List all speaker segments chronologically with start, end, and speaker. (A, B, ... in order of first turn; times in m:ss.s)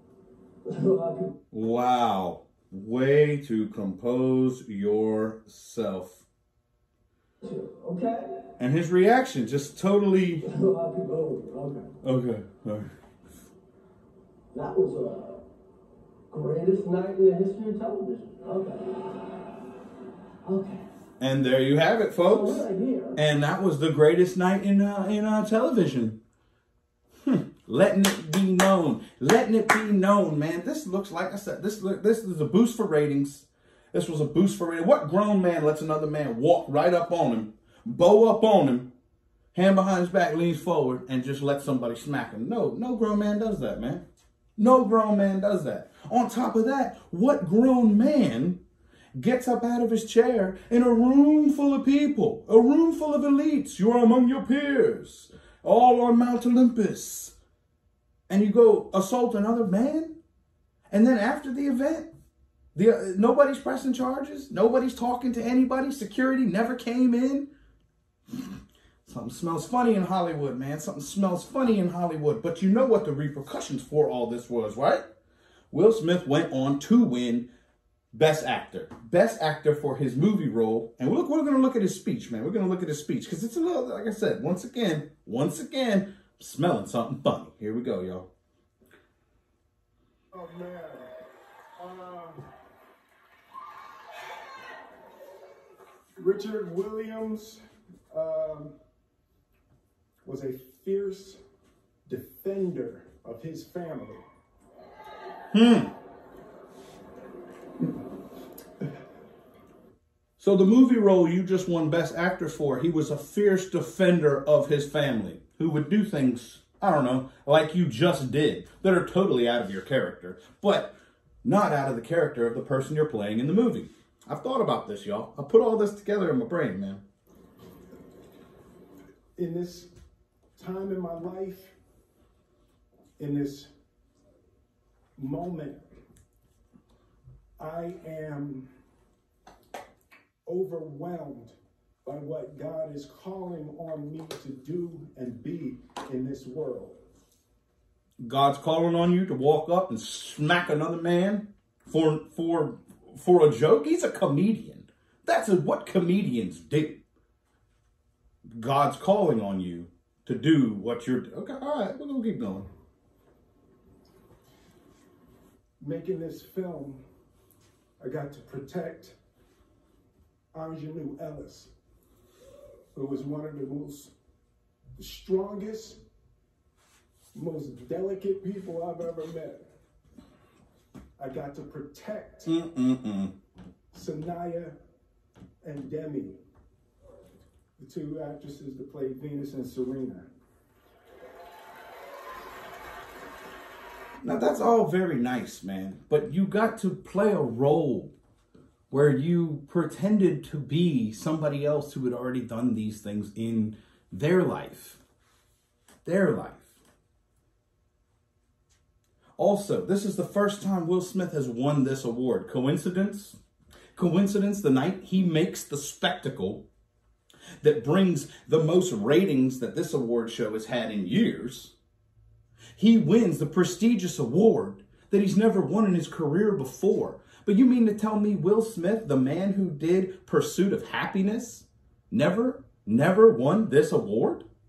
0:00.6-0:01.4 A
0:01.5-0:06.2 B
0:07.4-0:08.4 A
0:08.6-0:10.4 B
0:10.4-0:11.9 A
0:12.0-0:12.9 B
0:14.5-0:15.4 A
0:16.3-0:19.1 A
0:20.4-0:20.8 A
0:21.2-0:26.2 B
0:22.2-0:23.2 A
0:27.2-0:38.9 B
0:39.5-0:44.0 B
0:44.6-0:48.6 B
0:49.2-0:57.3 B
0:58.3-1:00.2 B
1:00.9-1:02.1 B
1:02.7-1:07.5 B
1:09.0-1:15.0 B
1:15.7-1:17.5 B
1:18.1-1:28.3 B
1:30.3-1:31.1 C
1:31.8-1:32.4 C
1:36.2-1:38.8 C
1:40.2-1:41.4 C
1:42.0-1:44.2 C
1:45.5-1:45.9 B
1:50.4-2:07.0 B
2:09.4-2:09.9 C
2:10.6-2:11.8 C
2:13.2-2:13.7 C
2:15.2-2:15.9 C
2:17.6-2:18.7 C
2:20.4-2:27.0 C
2:28.2-2:37.0 B
2:38.6-2:42.7 B
2:45.8-2:47.0 C
2:48.0-2:49.2 C
2:50.5-2:51.7 C
2:52.9-2:54.1 C
2:55.0-2:56.0 C
2:57.3-2:59.7 C
3:01.2-3:02.5 C
3:02.4-3:03.3 B
3:03.9-3:04.8 C
3:05.6-3:06.4 C
3:07.8-3:10.3 C
3:14.2-3:18.1 B
3:18.9-3:25.0 B
3:26.0-3:26.7 B
3:29.4-3:33.4 B
3:33.9-3:36.6 B
3:37.6-3:41.7 B
3:42.8-3:54.4 B